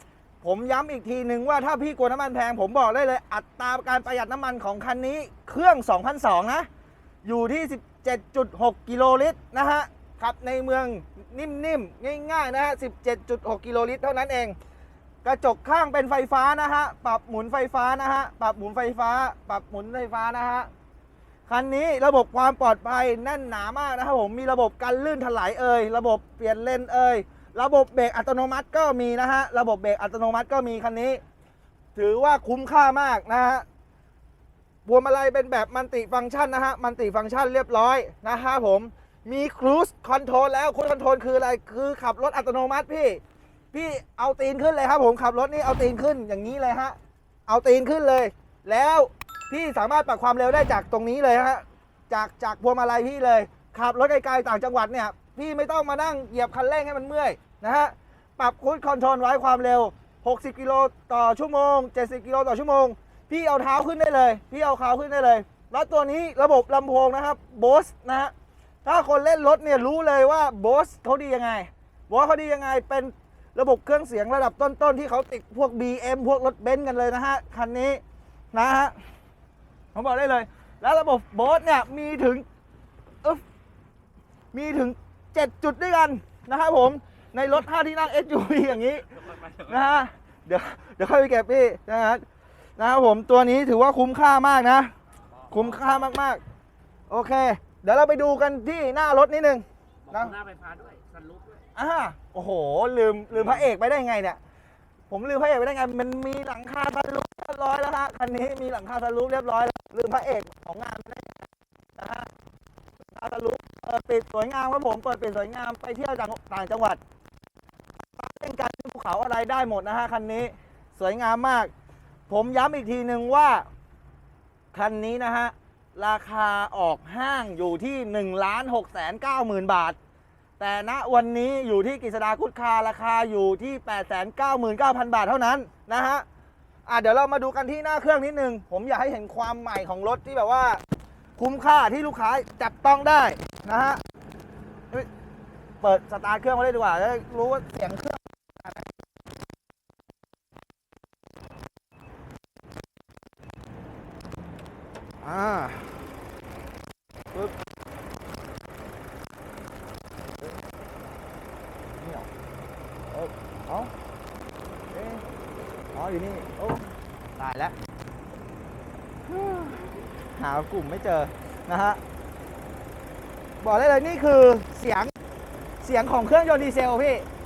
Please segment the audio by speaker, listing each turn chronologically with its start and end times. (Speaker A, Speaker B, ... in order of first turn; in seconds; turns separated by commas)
Speaker A: 0.4-6.7, Speaker A: 7.2-14.6, Speaker A: 15.2-20.7, Speaker A: 21.5-31.2, Speaker A: 32.0-33.6, Speaker A: 34.9-43.2, Speaker A: 43.7-68.3, Speaker A: 68.8-78.0, Speaker A: 78.5-79.0, Speaker A: 79.9-82.5, Speaker A: 84.5-89.1, Speaker B: 89.2-89.8, Speaker A: 89.7-92.2, Speaker A: 92.8-94.9, Speaker B: 95.4-96.1, Speaker A: 95.5-96.4, Speaker A: 97.1-100.3, Speaker B: 100.1-101.7, Speaker A: 101.8-104.4, Speaker B: 103.4-103.7, Speaker A: 105.1-112.3, Speaker A: 113.1-117.0, Speaker A: 118.2-121.7, Speaker A: 122.3-123.7, Speaker A: 124.7-130.0, Speaker A: 130.6-136.3, Speaker A: 136.9-140.8, Speaker A: 141.4-144.0, Speaker A: 145.8-148.8, Speaker A: 155.2-155.9, Speaker A: 162.0-162.3, Speaker A: 163.1-163.9, Speaker A: 164.9-165.2, Speaker A: 165.9-167.8, Speaker A: 169.3-172.0, Speaker A: 173.6-175.1, Speaker A: 175.8-177.3